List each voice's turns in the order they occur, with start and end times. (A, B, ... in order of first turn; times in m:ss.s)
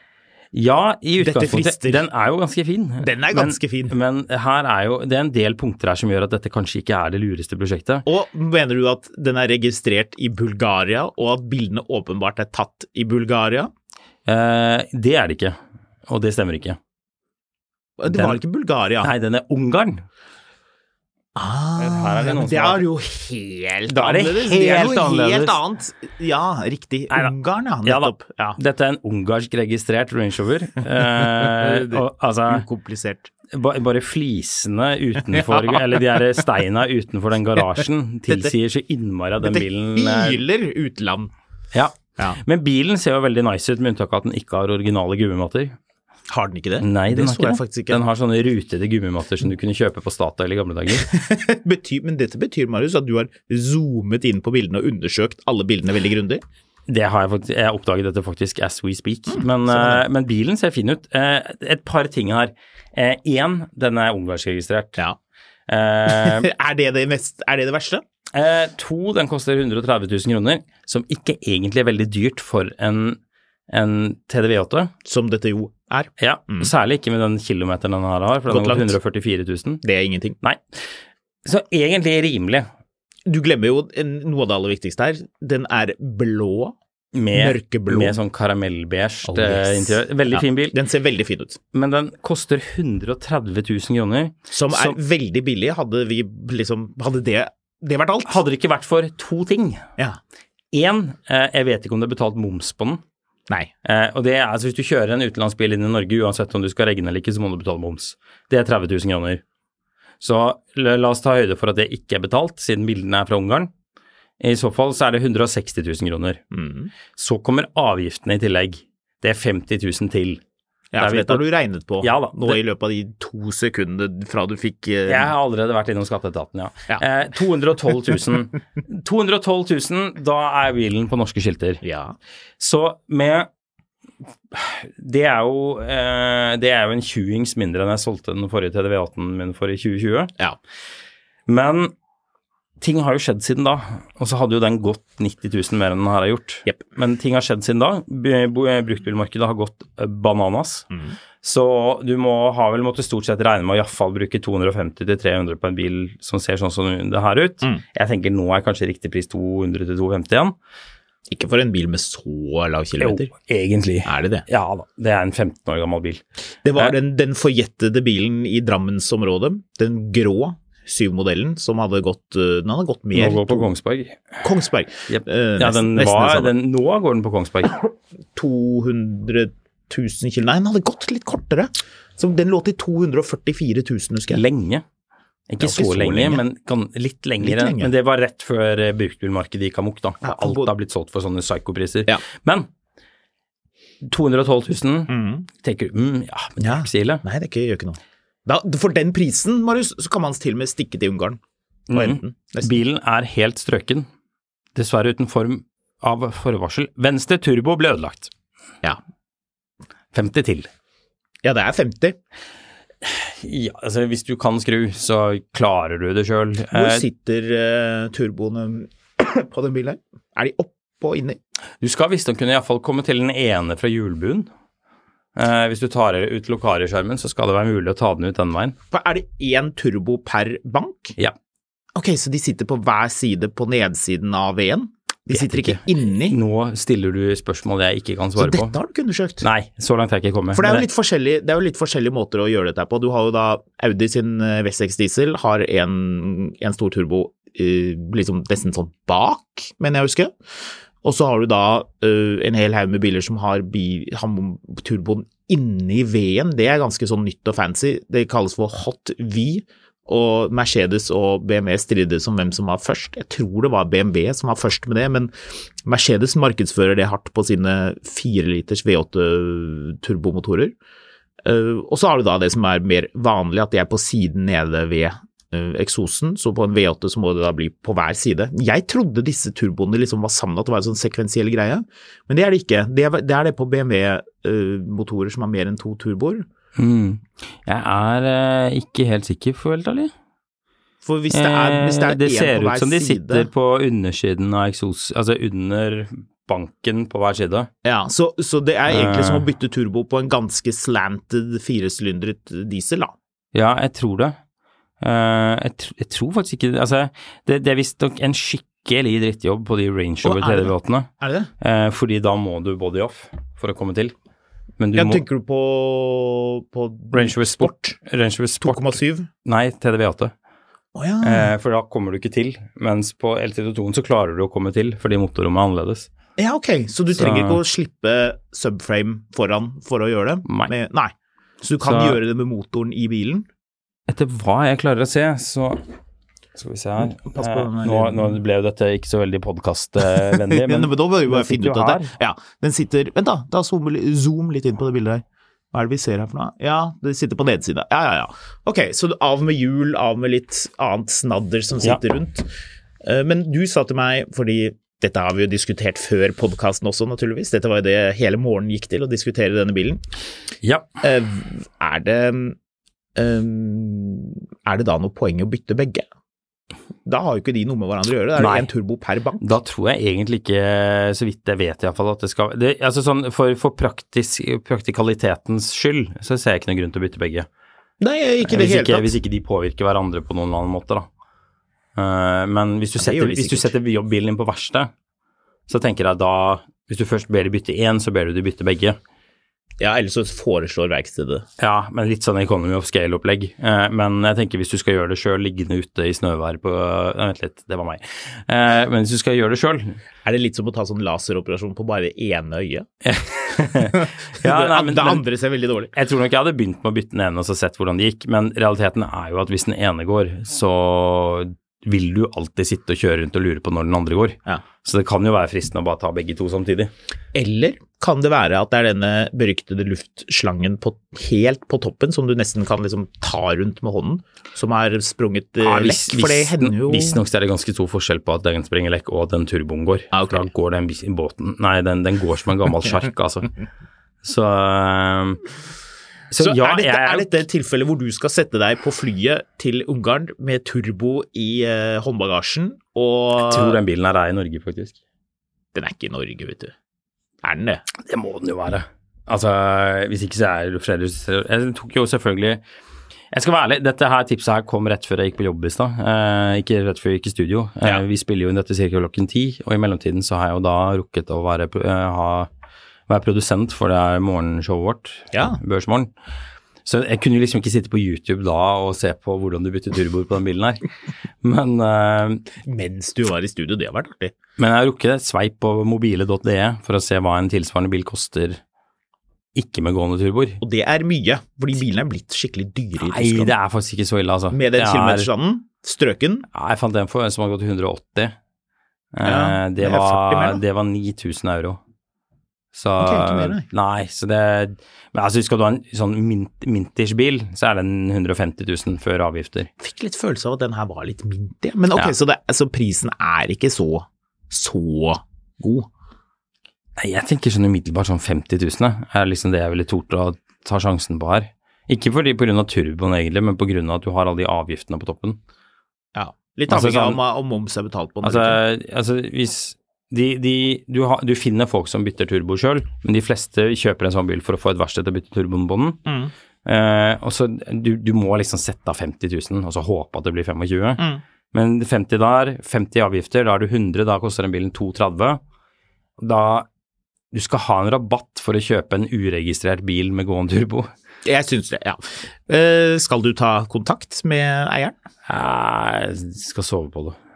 0:00.5-0:08.1 A
0:01.2-0:02.0 B
0:03.0-0:04.0 B
0:08.1-0:13.7 B
0:14.3-0:16.8 A
0:18.0-0:19.1 B
0:18.1-0:18.4 A
0:19.0-0:20.0 A
0:21.4-0:28.6 B
0:21.8-0:22.8 A
0:23.9-0:25.6 A
0:27.1-0:32.6 A
0:31.2-0:33.3 B
0:33.5-0:40.4 A
0:35.3-0:36.2 B
0:39.4-0:41.3 B
0:41.7-0:45.8 A
0:46.3-0:48.0 B
0:46.8-0:51.1 A
0:51.0-0:56.4 B
0:56.9-1:05.0 A
0:59.3-1:00.0 B
1:05.7-1:06.5 A
1:06.1-1:08.0 B
1:08.3-1:14.9 A
1:15.1-1:16.7 B
1:16.2-1:19.8 A
1:18.5-1:18.9 B
1:19.8-1:20.4 B
1:20.4-1:20.9 A
1:21.4-1:22.7 A
1:23.3-1:26.8 B
1:27.1-1:30.8 A
1:27.3-1:28.2 B
1:29.3-1:31.6 B
1:31.7-1:35.0 A
1:34.5-1:38.4 B
1:38.3-1:39.8 A
1:40.7-1:43.0 A
1:43.8-1:49.4 A
1:50.2-1:53.7 A
1:54.4-1:56.4 A
1:56.5-1:56.9 B
1:57.2-2:00.4 A
2:00.9-2:05.3 B
2:01.0-2:01.5 A
2:02.0-2:02.6 A
2:05.1-2:11.8 A
2:11.8-2:12.2 B
2:12.6-2:13.5 A
2:14.5-2:20.3 A
2:21.5-2:21.9 A
2:22.8-2:30.9 A
2:31.4-2:40.6 A
2:41.3-2:43.3 B
2:43.0-2:46.2 A
2:44.1-2:44.4 B
2:46.6-2:53.7 B
2:53.1-2:54.4 A
2:54.4-2:56.5 B
2:55.1-2:57.8 A
2:58.4-3:04.4 B
3:04.3-3:04.8 A
3:05.5-3:12.7 A
3:05.6-3:06.4 B
3:07.4-3:07.9 B
3:10.2-3:10.7 B
3:14.0-3:17.2 A
3:15.1-3:15.5 B
3:16.6-3:21.4 B
3:21.9-3:24.1 A
3:21.9-3:22.8 B
3:24.8-3:28.3 A
3:30.1-3:30.7 A
3:31.4-3:32.2 B
3:33.0-3:37.0 A
3:36.7-3:41.4 B
3:41.8-3:44.5 A
3:45.4-3:48.8 A
3:48.9-3:51.2 B
3:52.0-3:56.4 B
3:55.3-3:58.7 A
3:58.4-3:59.5 B
3:59.4-4:00.9 A
4:00.6-4:10.3 B
4:11.0-4:25.3 B
4:25.8-4:30.8 B
4:31.4-4:46.4 B
4:46.8-4:50.1 A
4:51.0-4:53.5 B
4:51.3-4:57.7 A
4:57.8-5:03.1 B
4:58.9-4:59.4 A
5:03.5-5:04.4 A
5:05.0-5:11.1 A
5:10.2-5:11.5 B
5:11.6-5:14.1 A
5:14.8-5:15.2 A
5:15.0-5:18.0 B
5:17.1-5:18.9 A
5:18.6-5:19.3 B
5:19.4-5:20.3 A
5:21.0-5:21.5 B
5:21.2-5:26.1 A
5:26.4-5:33.5 B
5:27.2-5:27.6 A
5:30.5-5:30.7 A
5:31.8-5:32.2 A
5:34.1-5:35.8 A
5:36.6-5:42.1 A
5:37.2-5:38.4 B
5:40.5-5:52.5 B
5:53.0-6:00.0 B
6:00.6-6:00.9 A
6:01.0-6:02.6 B
6:03.2-6:06.0 B
6:07.1-6:09.5 B
6:08.4-6:08.7 A
6:09.4-6:17.5 A
6:18.0-6:19.1 B
6:18.4-6:21.1 A
6:22.0-6:24.9 A
6:23.0-6:23.7 B
6:25.7-6:29.0 A
6:29.8-6:31.5 B
6:31.6-6:40.0 A
6:40.2-6:42.9 B
6:43.0-6:45.2 A
6:43.7-6:45.9 B
6:45.9-6:56.9 A
6:57.3-7:07.2 B
7:05.6-7:13.5 A
7:10.1-7:10.4 B
7:14.2-7:15.5 A
7:16.3-7:17.3 A
7:16.4-7:23.8 B
7:23.4-7:25.0 A
7:25.8-7:26.7 B
7:27.4-7:27.8 B
7:28.0-7:32.6 A
7:33.3-7:42.5 A
7:43.1-7:46.1 A
7:45.3-7:45.6 B
7:46.8-7:50.8 A
7:51.4-7:52.4 A
7:52.6-7:54.3 B
7:54.6-7:58.6 A
7:59.6-8:00.6 A
8:00.6-8:03.5 B
8:03.0-8:05.3 A
8:04.5-8:06.5 B
8:06.5-8:08.4 A
8:09.1-8:11.8 A
8:09.2-8:10.6 B
8:12.7-8:19.7 A
8:13.0-8:13.6 B
8:19.8-8:25.9 B
8:27.0-8:35.4 A
8:36.2-8:38.6 B
8:36.7-8:37.2 A
8:38.2-8:46.0 A
8:46.1-8:46.3 B
8:46.6-8:55.4 A
8:56.2-8:56.7 A
8:57.3-9:00.9 A
9:01.2-9:05.0 B
9:05.3-9:07.2 A